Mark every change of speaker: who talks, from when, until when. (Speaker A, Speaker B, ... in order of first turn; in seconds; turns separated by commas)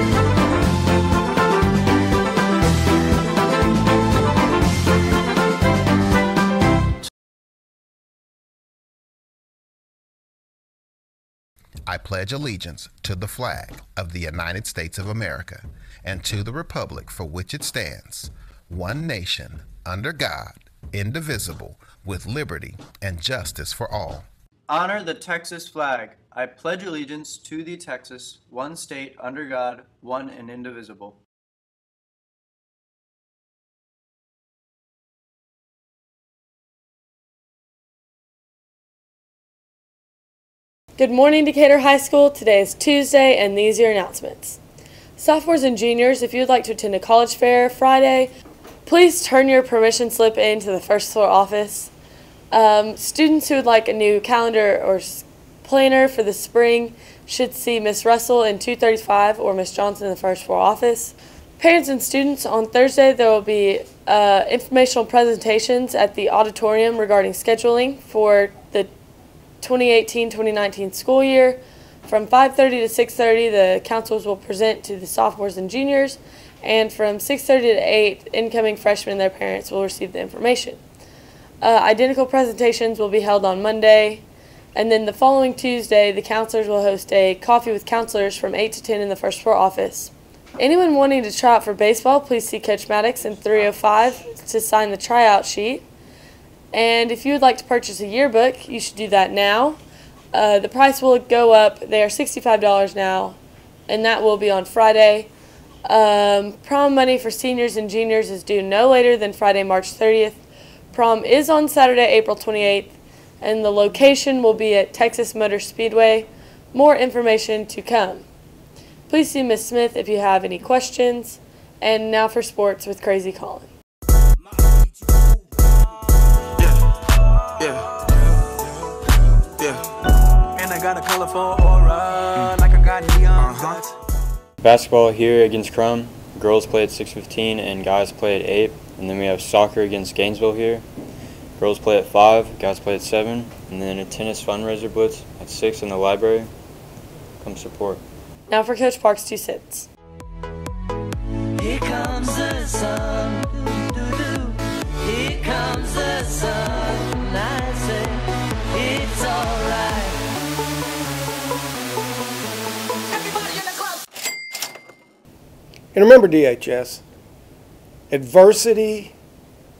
Speaker A: 11.9-24.3, Speaker B: 24.7-31.2, Speaker C: 41.0-44.6, Speaker C: 45.2-48.3, Speaker C: 48.9-51.9, Speaker C: 52.5-68.9, Speaker C: 69.6-80.8, Speaker C: 81.6-95.9, Speaker C: 96.7-99.8, Speaker C: 100.3-105.3, Speaker C: 105.8-118.2, Speaker C: 119.1-123.7, Speaker D: 130.5-133.9, Speaker E: 134.6-140.8, Speaker E: 141.6-146.5, Speaker E: 147.4-148.0, Speaker C: 148.5-149.9, Speaker F: 151.6-160.2, Speaker G: 165.9-167.0, Speaker G: 168.1-169.1